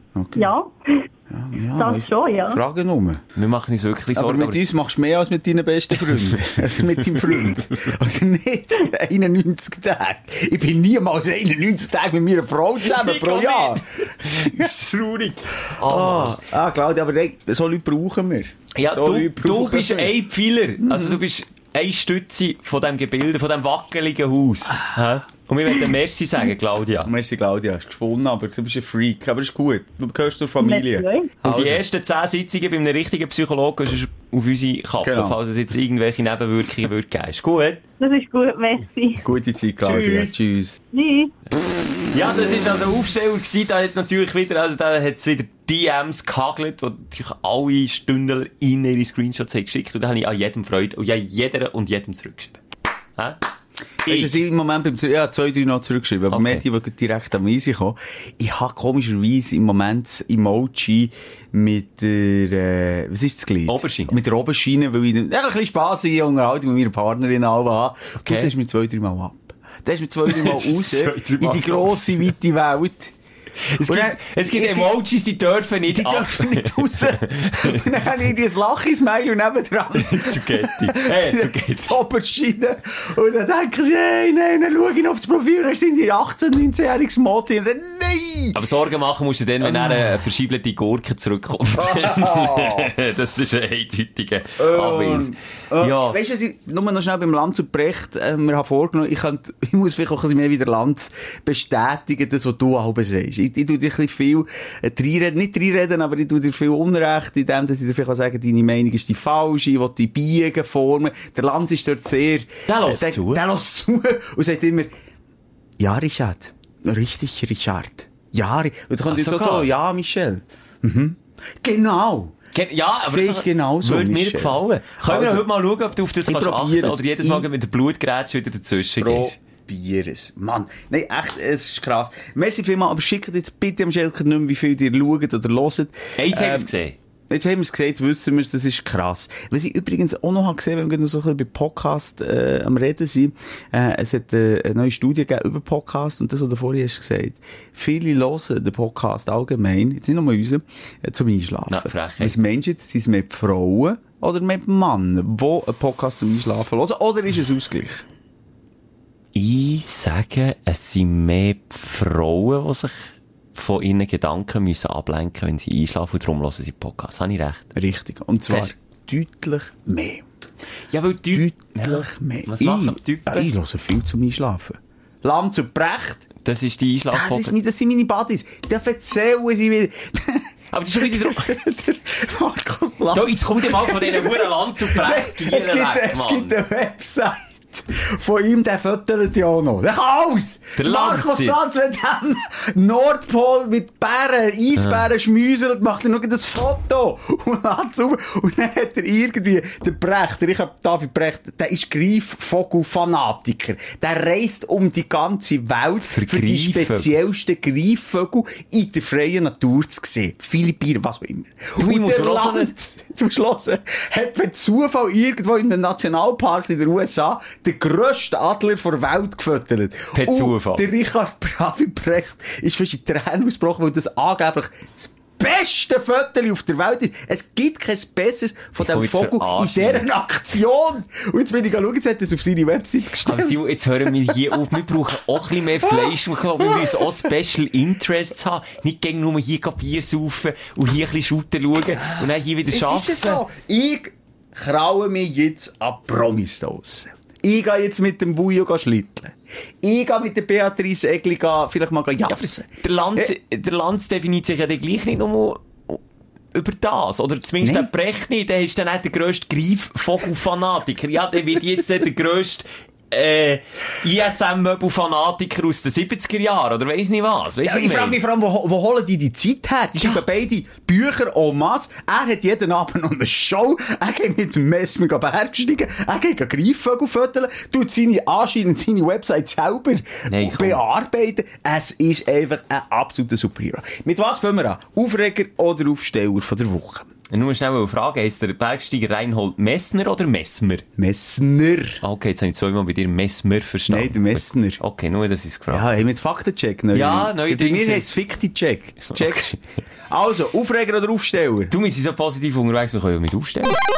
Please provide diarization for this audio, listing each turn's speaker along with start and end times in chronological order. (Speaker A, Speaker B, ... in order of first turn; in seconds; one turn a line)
Speaker A: 0.1-0.5
Speaker B: 0.4-1.0
Speaker A: 1.3-3.2
Speaker B: 1.8-2.6
Speaker C: 3.4-4.6
Speaker A: 4.2-14.7
Speaker C: 6.1-7.7
Speaker C: 12.8-16.4
Speaker A: 15.7-20.2
Speaker C: 18.8-27.1
Speaker A: 20.8-21.2
Speaker A: 27.1-31.8
Speaker B: 30.6-31.3
Speaker C: 31.4-37.8
Speaker A: 35.0-35.4
Speaker B: 38.0-39.2
Speaker A: 39.2-40.8
Speaker C: 39.8-40.5
Speaker B: 40.9-41.3
Speaker C: 42.1-52.6
Speaker A: 54.0-73.1
Speaker C: 54.0-54.4
Speaker C: 56.3-56.6
Speaker C: 63.7-64.2
Speaker C: 68.2-68.5
Speaker C: 70.3-72.3
Speaker C: 73.6-77.9
Speaker A: 73.8-75.0
Speaker A: 75.9-88.6
Speaker C: 80.0-82.0
Speaker C: 88.5-96.2
Speaker A: 89.6-90.2
Speaker A: 91.8-92.9
Speaker A: 94.6-114.9
Speaker C: 112.7-113.4
Speaker A: 115.8-122.4
Speaker C: 119.1-119.7
Speaker C: 122.5-129.4
Speaker A: 122.9-125.5
Speaker A: 126.3-127.5
Speaker A: 129.0-136.7
Speaker C: 136.2-137.0
Speaker A: 137.3-158.1
Speaker C: 151.7-152.4
Speaker C: 159.3-167.7
Speaker A: 167.8-170.3
Speaker C: 168.5-168.7
Speaker C: 170.9-173.5
Speaker A: 171.3-176.3
Speaker C: 176.4-177.6
Speaker A: 177.1-233.6
Speaker C: 180.7-181.6
Speaker C: 183.1-186.6
Speaker C: 190.8-191.6
Speaker C: 194.8-195.1
Speaker C: 206.1-207.1
Speaker C: 211.8-212.7
Speaker C: 220.1-220.9
Speaker C: 228.8-230.1
Speaker C: 233.2-243.4
Speaker A: 235.8-237.1
Speaker A: 242.1-253.3
Speaker C: 252.3-256.0
Speaker C: 256.5-268.2
Speaker A: 257.6-257.9
Speaker A: 267.6-287.1
Speaker C: 280.3-280.8
Speaker C: 287.3-290.9
Speaker A: 291.0-292.0
Speaker C: 292.0-295.9
Speaker A: 293.9-294.8
Speaker A: 295.7-299.5
Speaker C: 296.9-298.1
Speaker C: 299.1-299.6
Speaker A: 300.1-301.7
Speaker C: 301.7-303.8